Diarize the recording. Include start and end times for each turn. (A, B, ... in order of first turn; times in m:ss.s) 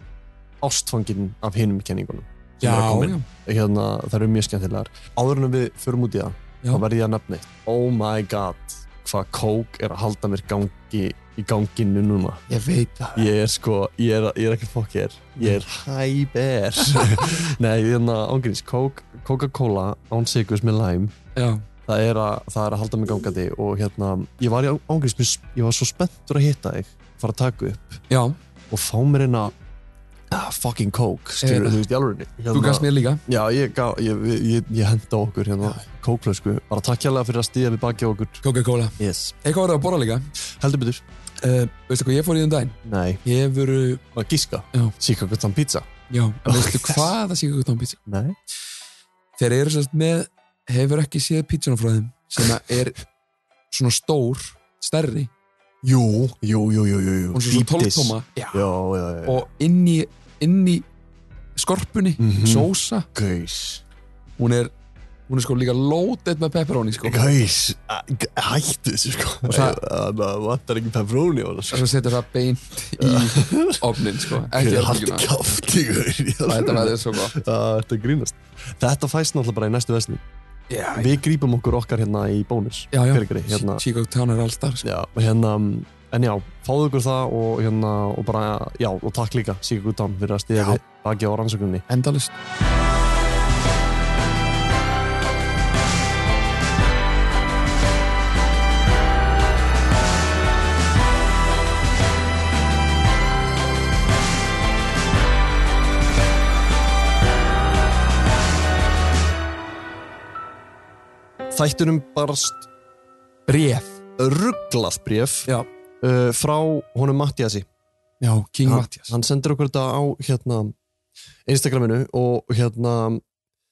0:00.6-0:12.4 A
0:02.6-0:03.3 B
0:12.5-0:13.3 B
0:13.2-0:21.1 A
0:21.4-0:21.6 B
0:21.9-0:28.0 A
0:28.1-0:28.4 B
0:28.7-0:29.5 A
0:30.3-0:38.4 A
0:31.4-0:31.8 B
0:32.5-0:33.2 B
0:38.4-0:40.3 B
0:39.0-0:39.4 A
0:40.4-0:41.0 A
0:41.4-0:44.0 B
0:42.8-0:43.2 A
0:44.1-0:45.9 A
0:46.1-0:48.0 B
0:46.5-0:47.1 A
0:48.1-0:48.4 A
0:49.4-0:53.0 B
0:53.7-0:55.3 B
0:55.8-0:59.4 A
0:57.3-0:58.7 B
0:59.3-1:00.8 B
1:01.6-1:03.1 B
1:02.2-1:03.8 A
1:04.4-1:04.7 B
1:05.3-1:07.2 B
1:07.0-1:11.9 A
1:09.5-1:09.8 B
1:11.7-1:15.3 B
1:13.0-1:20.2 A
1:16.4-1:17.4 B
1:20.7-1:21.2 B
1:21.0-1:23.8 A
1:22.9-1:24.8 B
1:24.8-1:31.8 A
1:31.9-1:32.3 B
1:51.5-1:52.7 A
1:53.5-1:54.0 B
1:54.2-1:57.7 A
1:58.2-1:59.1 B
1:58.6-2:00.8 A
2:01.5-2:03.2 A